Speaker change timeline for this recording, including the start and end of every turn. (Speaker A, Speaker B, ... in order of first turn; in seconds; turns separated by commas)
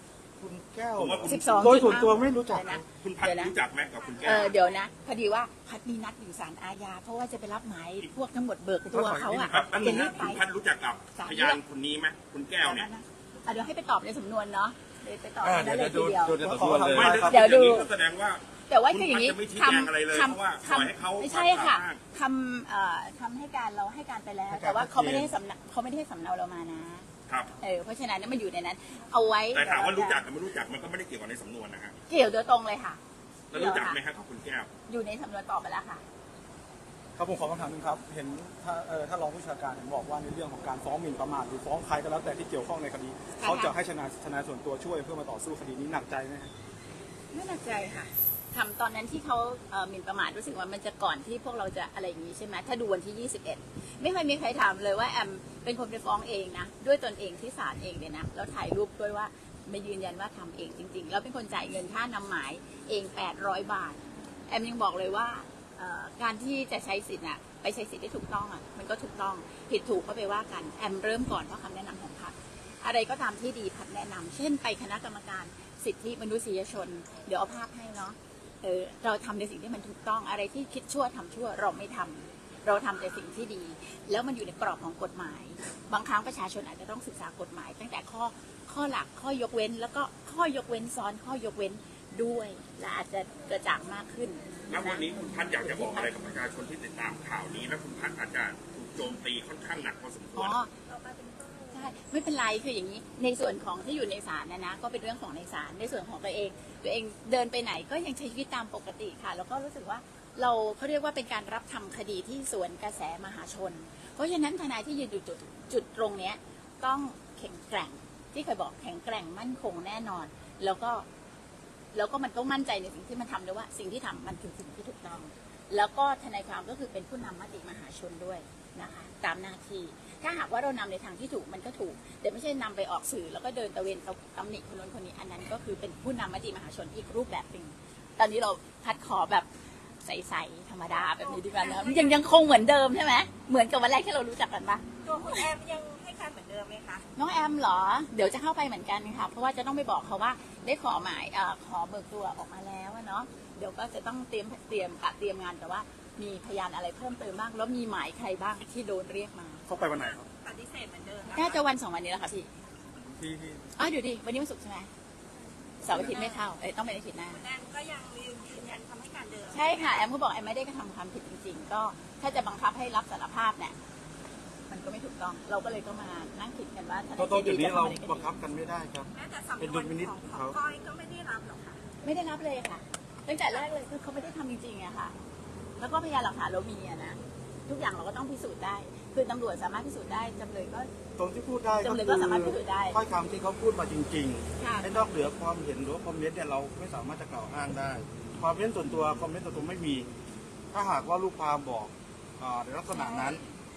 Speaker A: 0.4-2.8, Speaker B: 1.0-2.0, Speaker C: 1.2-3.5, Speaker B: 2.9-4.6, Speaker D: 4.1-4.9, Speaker C: 4.2-10.4, Speaker A: 8.9-10.2, Speaker B: 9.4-12.9, Speaker C: 11.2-11.6, Speaker C: 12.6-17.9, Speaker A: 15.4-17.5, Speaker B: 16.7-22.0, Speaker C: 18.7-27.1, Speaker A: 24.5-25.3, Speaker B: 27.3-27.5, Speaker C: 27.6-30.2, Speaker B: 29.5-32.0, Speaker C: 32.1-33.0, Speaker B: 33.5-34.7, Speaker C: 33.5-34.0, Speaker C: 34.9-36.0, Speaker E: 37.2-46.5, Speaker A: 37.2-46.5, Speaker C: 43.4-43.8, Speaker C: 47.3-96.1, Speaker B: 94.7-100.6, Speaker C: 100.3-100.7, Speaker D: 100.9-102.1, Speaker C: 101.7-121.1, Speaker C: 121.9-139.5, Speaker C: 140.0-145.5, Speaker D: 140.9-142.3, Speaker D: 145.0-147.1, Speaker C: 147.2-159.7, Speaker A: 159.7-160.2, Speaker D: 159.9-161.7, Speaker C: 161.3-162.5, Speaker A: 163.2-163.7, Speaker C: 163.8-164.9, Speaker C: 165.8-167.4, Speaker A: 165.9-166.2, Speaker D: 166.1-166.5, Speaker D: 167.3-170.1, Speaker C: 169.5-173.8, Speaker C: 174.7-178.3, Speaker A: 177.2-179.1, Speaker D: 179.1-181.8, Speaker A: 179.6-180.6, Speaker C: 182.0-185.1, Speaker C: 185.8-190.9, Speaker A: 191.2-200.1, Speaker C: 191.8-193.0, Speaker C: 194.6-194.9, Speaker A: 200.7-203.4, Speaker C: 202.9-203.4